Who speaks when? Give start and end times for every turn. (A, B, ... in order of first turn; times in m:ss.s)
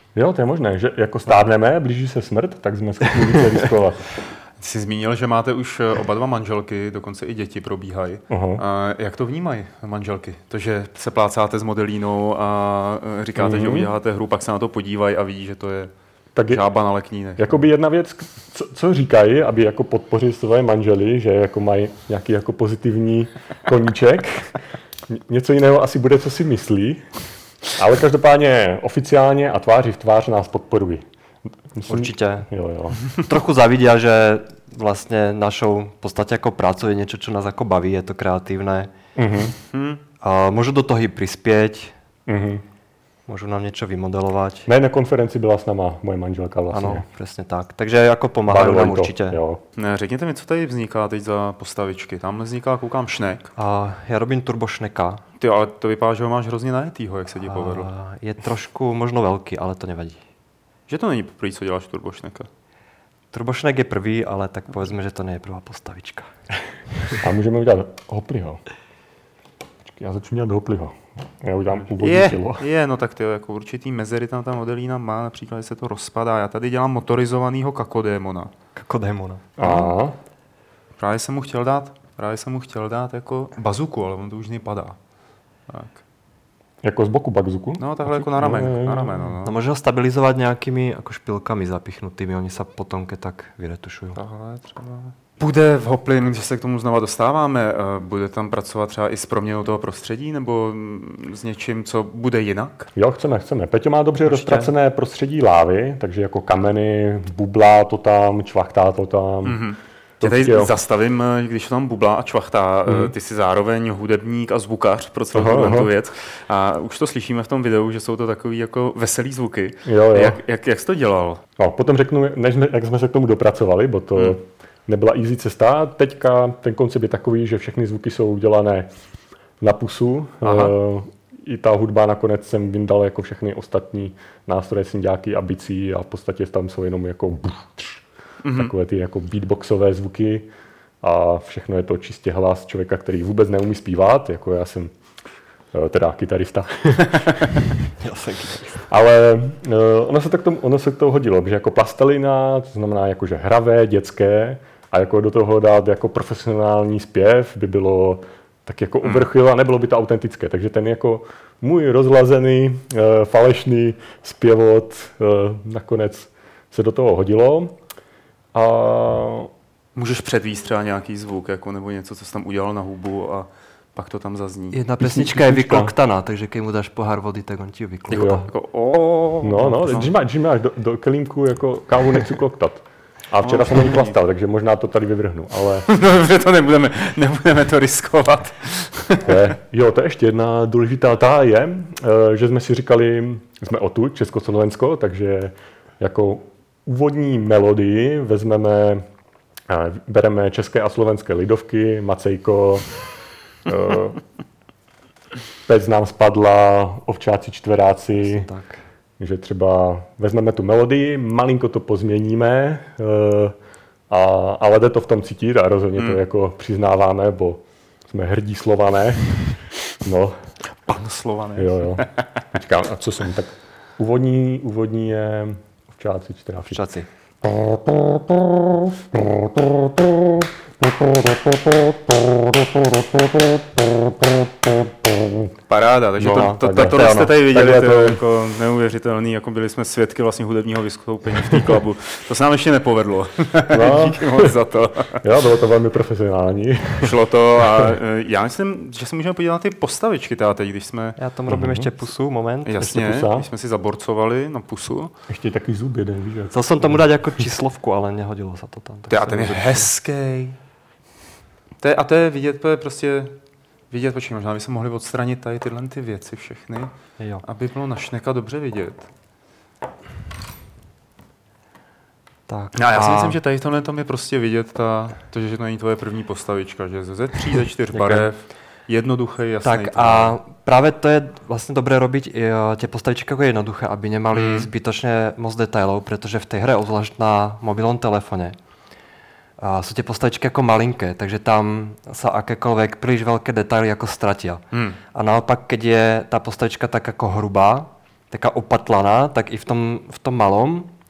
0:00.2-0:04.0 A
0:04.6-0:15.9 B
0:08.3-0:08.6 A
0:13.4-0:13.9 A
0:16.4-0:16.6 A
0:16.5-0:17.4 B
0:17.4-0:24.6 A
0:25.1-0:27.2 A
0:27.7-0:31.0 A
0:31.7-0:33.0 A
0:31.9-0:32.5 C
0:33.1-0:38.9 C
0:39.2-0:39.5 A
0:39.7-0:40.0 B
0:40.2-0:42.0 C
0:42.3-0:42.6 A
0:43.3-0:44.7 C
0:44.7-0:47.1 A
0:46.7-0:49.4 C
0:48.5-0:49.6 A
0:49.8-0:53.5 B
0:53.6-0:55.2 C
0:55.4-0:57.9 B
0:57.5-1:00.2 C
1:00.9-1:02.5 B
1:03.3-1:06.3 C
1:07.2-1:08.6 A
1:09.8-1:12.6 A
1:11.9-1:18.5 B
1:18.8-1:19.9 C
1:19.6-1:20.2 A
1:21.0-1:25.0 B
1:25.7-1:26.0 B
1:26.8-1:29.3 A
1:27.8-1:29.6 B
1:29.4-1:34.2 C
1:34.2-1:42.9 B
1:43.0-1:49.6 A
1:44.3-1:44.7 B
1:49.4-2:01.4 B
1:50.2-1:50.7 A
1:52.9-1:53.1 A
1:55.3-1:55.9 A
1:59.8-2:00.4 A
2:01.6-2:08.9 A
2:09.6-2:18.0 A
2:10.4-2:10.7 B
2:18.4-2:18.7 B
2:18.6-2:20.5 A
2:21.0-2:24.9 A
2:25.7-2:27.6 A
2:28.0-2:28.9 C
2:28.9-2:47.8 A
2:48.5-2:49.5 A
2:50.0-2:54.8 B
2:54.7-2:58.4 C
2:55.0-2:55.9 A
2:58.1-3:00.1 B
2:58.1-2:58.4 A
2:59.4-3:05.9 A
3:03.4-3:04.1 B
3:05.9-3:09.3 B
3:09.2-3:19.0 A
3:19.7-3:23.0 A
3:23.6-3:24.2 A
3:25.7-3:28.5 A
3:28.2-3:28.8 C
3:29.2-3:33.6 A
3:34.1-3:39.5 A
3:40.0-3:40.4 A
3:40.8-3:42.3 B
3:41.6-3:46.8 A
3:46.6-3:47.1 C
3:47.4-3:55.4 A
3:55.7-4:05.2 B
3:56.2-3:58.2 A
3:56.2-3:57.3 C
4:03.7-4:04.6 A
4:05.2-4:07.1 A
4:07.0-4:11.2 B
4:11.2-4:12.7 C
4:11.5-4:11.9 A
4:12.6-4:15.1 B
4:12.8-4:13.5 A
4:15.3-4:17.0 A
4:16.5-4:19.9 C
4:19.1-4:20.6 B
4:21.8-4:23.4 B
4:23.9-4:29.1 B
4:32.5-4:33.4 C
4:32.8-4:40.4 B
4:37.9-4:38.3 C
4:39.6-4:48.6 C
4:44.3-4:44.7 B
4:49.6-4:54.6 C
4:54.7-4:55.0 B
4:55.1-5:00.9 C